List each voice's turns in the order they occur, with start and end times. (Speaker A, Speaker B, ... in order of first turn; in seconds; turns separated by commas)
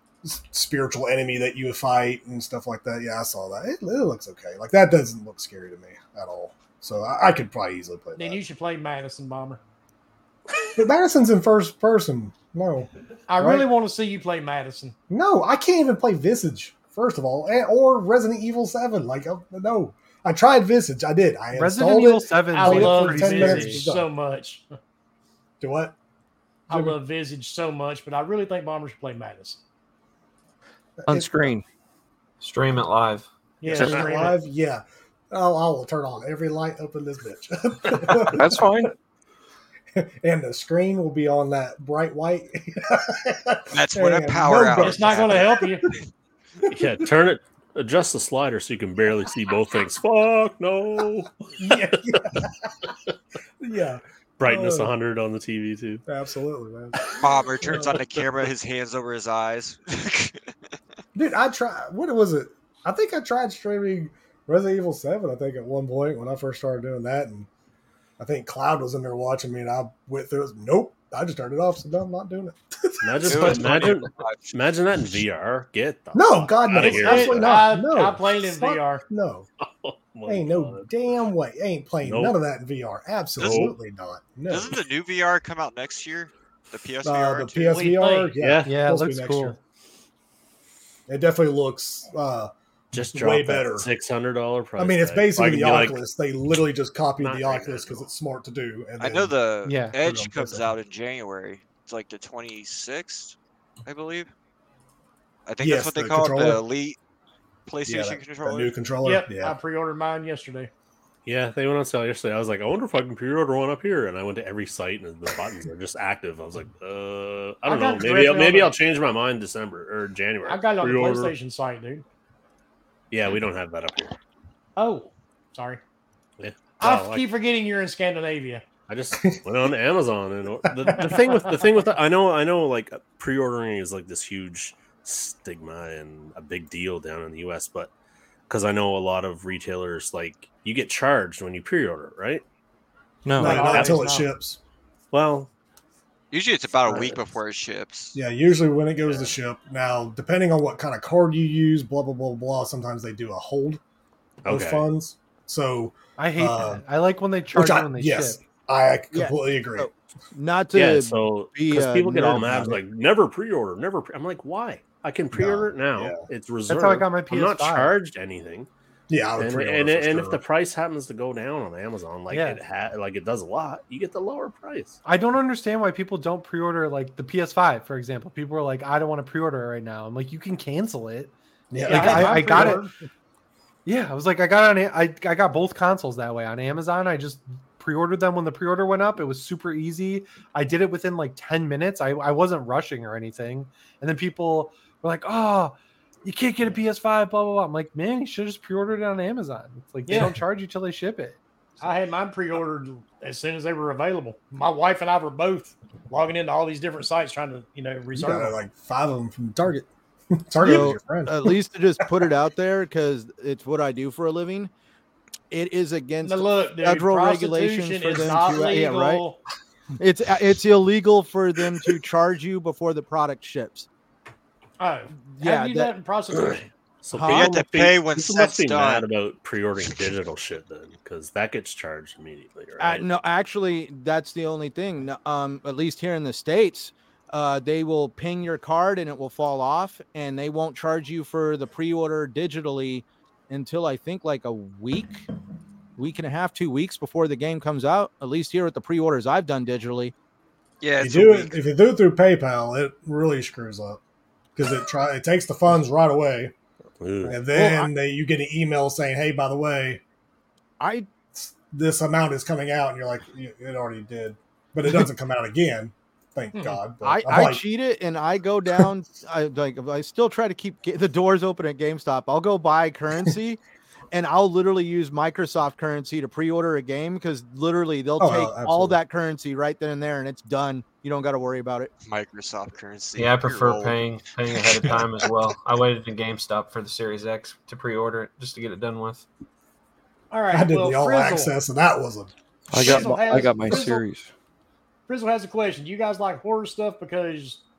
Speaker A: 0.2-8.4, Speaker B: 8.2-9.6, Speaker A: 10.7-13.7, Speaker B: 13.3-14.9, Speaker A: 15.1-24.1, Speaker C: 21.5-23.8, Speaker B: 22.5-24.6, Speaker A: 25.6-25.9, Speaker A: 26.7-27.0, Speaker B: 26.7-29.6, Speaker A: 31.0-31.5, Speaker D: 31.1-31.6, Speaker E: 32.4-33.3, Speaker B: 33.6-34.4, Speaker A: 33.6-38.8, Speaker F: 33.8-34.0, Speaker D: 38.3-38.9, Speaker A: 39.9-45.7, Speaker G: 43.7-46.0, Speaker B: 44.7-45.8, Speaker F: 46.7-52.2, Speaker A: 51.6-52.7, Speaker A: 53.6-54.9, Speaker F: 54.4-56.0, Speaker A: 56.0-58.0, Speaker F: 57.0-58.0, Speaker G: 57.2-60.4, Speaker A: 61.1-67.5, Speaker A: 68.2-73.8, Speaker F: 73.0-77.7, Speaker G: 73.2-75.2, Speaker A: 76.1-79.5, Speaker B: 76.8-79.0, Speaker F: 79.6-80.9, Speaker A: 80.3-84.8, Speaker F: 82.0-82.4, Speaker F: 83.4-83.8, Speaker G: 83.4-83.7, Speaker G: 84.5-87.8, Speaker A: 87.0-89.6, Speaker B: 87.7-88.3, Speaker F: 88.4-88.8, Speaker C: 88.6-89.6, Speaker A: 91.1-93.9, Speaker F: 92.9-96.0, Speaker A: 94.8-99.3, Speaker F: 97.2-98.1, Speaker G: 99.0-104.3, Speaker C: 99.6-100.0, Speaker A: 100.0-100.7, Speaker G: 105.5-107.0, Speaker A: 105.6-106.6, Speaker G: 107.7-108.7, Speaker A: 107.8-109.5, Speaker B: 109.0-110.7, Speaker F: 111.2-121.3, Speaker B: 117.6-118.7, Speaker B: 120.5-122.0, Speaker F: 123.1-124.2, Speaker B: 124.8-125.8, Speaker F: 126.4-127.2, Speaker B: 126.8-128.6, Speaker F: 128.9-137.9, Speaker A: 129.1-129.4, Speaker A: 130.7-131.1, Speaker F: 138.5-142.4, Speaker D: 143.2-143.8, Speaker A: 143.3-144.6, Speaker B: 143.4-144.3, Speaker F: 143.7-144.0, Speaker F: 145.1-145.5, Speaker G: 146.3-148.2, Speaker A: 148.1-153.8, Speaker F: 149.1-149.3, Speaker F: 154.4-154.9, Speaker A: 154.4-156.8, Speaker C: 156.2-158.4, Speaker A: 157.5-159.9, Speaker H: 159.1-162.8, Speaker F: 160.7-168.7, Speaker A: 165.3-166.3, Speaker C: 166.7-167.9, Speaker A: 169.1-170.4, Speaker F: 169.3-175.0, Speaker C: 172.3-172.6, Speaker C: 175.0-182.8, Speaker A: 181.7-182.8, Speaker B: 181.8-182.9, Speaker C: 183.8-201.4, Speaker B: 200.1-200.3, Speaker B: 201.8-208.6, Speaker A: 208.1-211.5, Speaker H: 210.6-214.7, Speaker H: 215.5-219.2, Speaker B: 216.2-219.4, Speaker H: 220.0-223.9, Speaker B: 224.8-226.7, Speaker H: 225.3-225.9, Speaker F: 226.4-233.1, Speaker H: 227.1-227.6, Speaker G: 227.2-229.1, Speaker H: 232.8-245.3, Speaker H: 246.0-250.1, Speaker G: 250.8-251.6, Speaker A: 251.0-254.0, Speaker A: 254.6-256.5, Speaker F: 257.0-257.4, Speaker A: 257.3-260.0, Speaker H: 257.4-257.9, Speaker H: 260.8-261.1, Speaker A: 261.3-267.6, Speaker B: 266.5-266.8, Speaker H: 267.0-273.6, Speaker H: 274.1-281.9, Speaker A: 278.2-279.0, Speaker G: 282.0-285.3, Speaker E: 283.1-289.2, Speaker B: 290.3-291.6, Speaker A: 290.5-293.8, Speaker D: 292.7-294.3, Speaker B: 292.7-294.0, Speaker B: 295.1-297.6